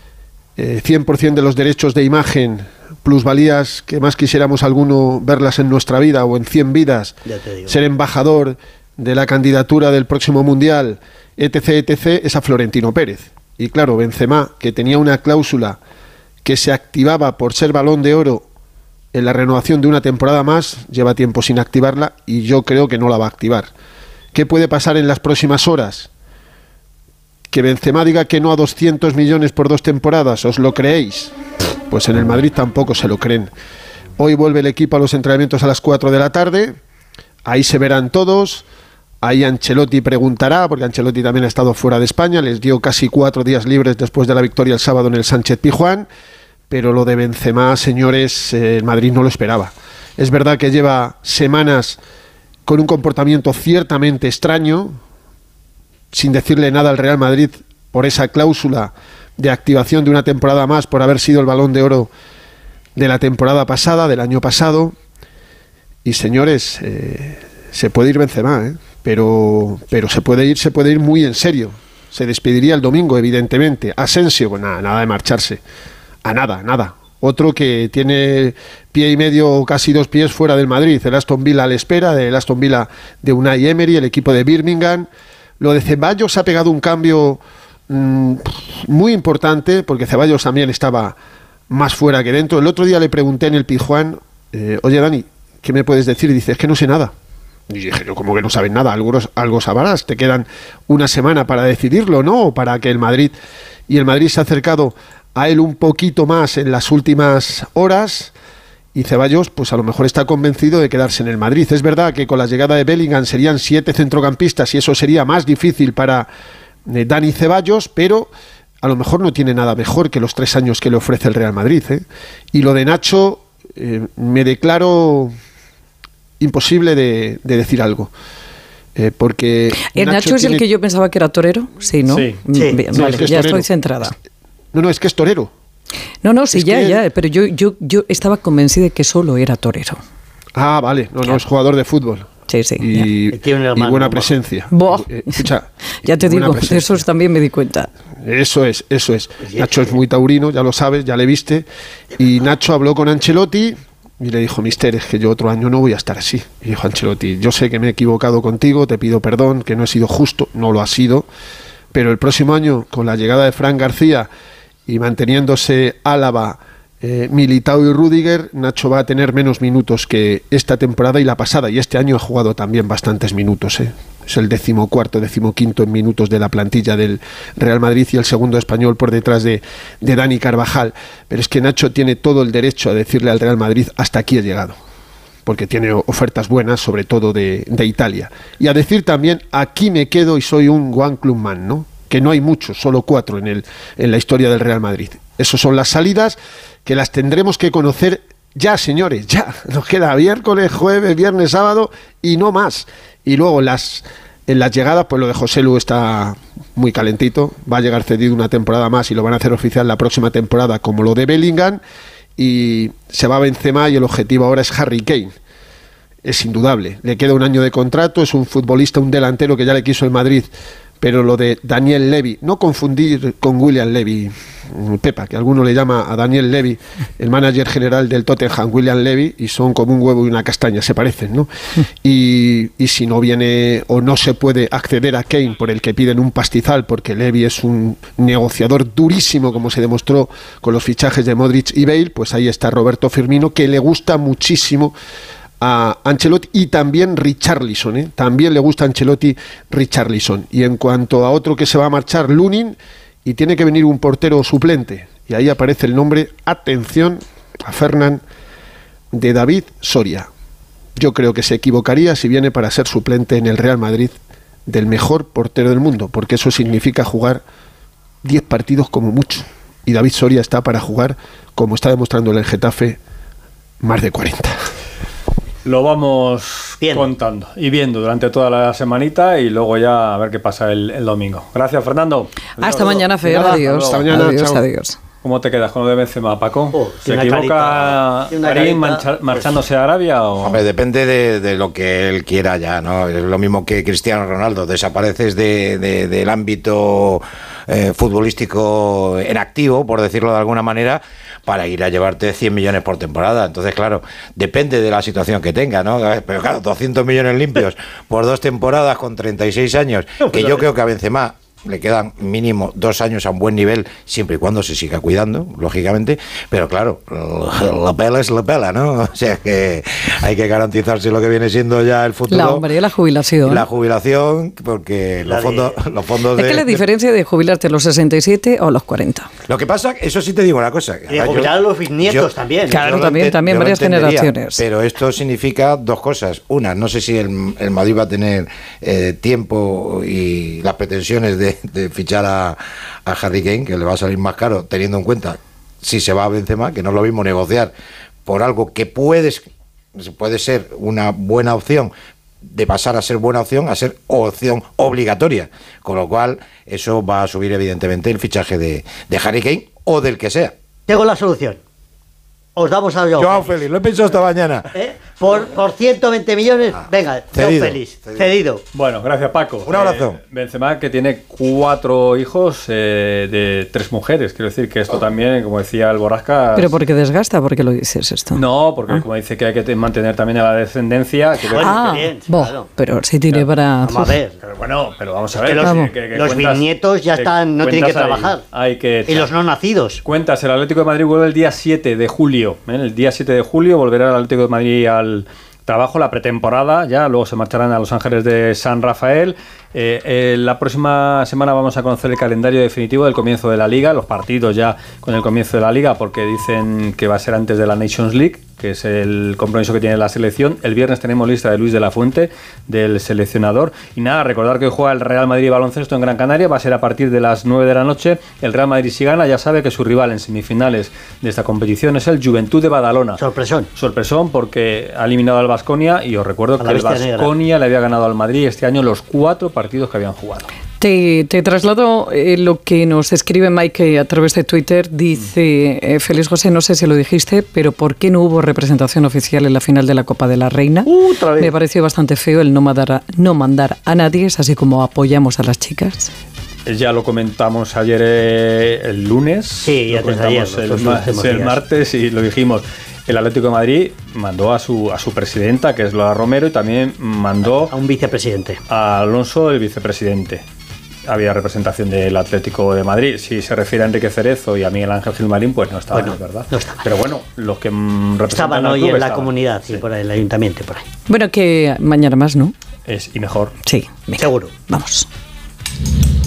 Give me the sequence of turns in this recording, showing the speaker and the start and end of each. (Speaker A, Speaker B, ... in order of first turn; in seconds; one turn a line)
Speaker A: 0.6-15.8
Speaker B: 7.3-7.8
Speaker A: 16.4-18.5
Speaker A: 19.1-23.7
Speaker A: 24.3-26.1
Speaker A: 27.5-31.3
Speaker A: 31.9-33.5
Speaker A: 34.2-36.8
Speaker A: 37.5-38.6
Speaker A: 39.2-46.1
Speaker A: 46.7-52.0
Speaker A: 52.7-55.0
Speaker A: 56.1-62.1
Speaker A: 63.0-64.9
Speaker A: 66.0-75.6
Speaker A: 76.2-85.1
Speaker A: 85.6-91.2
Speaker A: 91.7-97.1
Speaker A: 97.7-103.4
Speaker A: 103.9-108.3
Speaker A: 108.9-116.3
Speaker A: 116.9-118.3
Speaker A: 118.8-125.3
Speaker A: 126.4-128.1
Speaker A: 129.0-130.7
Speaker C: 129.9-134.1
Speaker D: 132.1-132.4
Speaker B: 132.5-132.8
Speaker A: 132.9-133.7
Speaker A: 134.7-135.5
Speaker C: 136.2-140.0
Speaker A: 136.5-137.0
Speaker A: 140.6-147.1
Speaker C: 142.5-143.1
Speaker B: 143.3-144.4
Speaker C: 144.7-147.9
Speaker A: 148.2-151.7
Speaker B: 149.4-150.0
Speaker A: 152.2-161.3
Speaker A: 161.9-164.3
Speaker A: 164.9-184.8
Speaker A: 185.5-211.8
Speaker A: 212.4-215.3
Speaker A: 216.2-220.5
Speaker A: 221.0-231.5
Speaker A: 232.0-244.9
Speaker A: 245.6-258.2
Speaker A: 259.1-260.3
Speaker A: 261.0-264.2
Speaker A: 264.7-267.4
Speaker A: 268.2-273.0
Speaker A: 273.8-274.6
Speaker D: 275.6-284.1
Speaker B: 276.8-277.1
Speaker C: 282.6-285.0
Speaker A: 283.2-284.6
Speaker D: 285.2-290.6
Speaker B: 286.7-289.6
Speaker E: 290.4-322.7
Speaker B: 310.3-310.6
Speaker C: 322.3-323.7
Speaker E: 323.4-326.8
Speaker B: 325.2-325.8
Speaker C: 326.4-329.3
Speaker E: 329.5-331.5
Speaker B: 331.1-332.8
Speaker C: 332.7-334.6
Speaker E: 332.8-347.7
Speaker E: 348.3-349.4
Speaker E: 350.0-351.9
Speaker E: 352.5-360.5
Speaker B: 360.9-361.6
Speaker B: 362.6-363.6
Speaker E: 363.2-364.7
Speaker B: 364.7-368.6
Speaker E: 367.3-368.3
Speaker D: 368.7-376.8
Speaker E: 369.7-370.2
Speaker C: 376.6-379.0
Speaker D: 378.4-381.9
Speaker B: 381.5-382.7
Speaker C: 381.6-384.1
Speaker B: 383.8-384.4
Speaker D: 384.4-389.3
Speaker B: 385.4-388.4
Speaker C: 385.6-385.9
Speaker B: 389.1-390.0
Speaker D: 390.0-423.2
Speaker B: 423.2-423.7
Speaker D: 423.8-430.5
Speaker B: 426.6-427.3
Speaker C: 430.8-446.1
Speaker B: 440.9-441.5
Speaker D: 446.7-457.8
Speaker B: 449.6-451.6
Speaker B: 457.7-458.6
Speaker D: 458.7-460.4
Speaker D: 461.1-469.9
Speaker B: 465.9-466.8
Speaker B: 468.3-470.9
Speaker C: 471.1-472.5
Speaker D: 472.9-473.5
Speaker C: 473.6-475.1
Speaker B: 474.2-474.5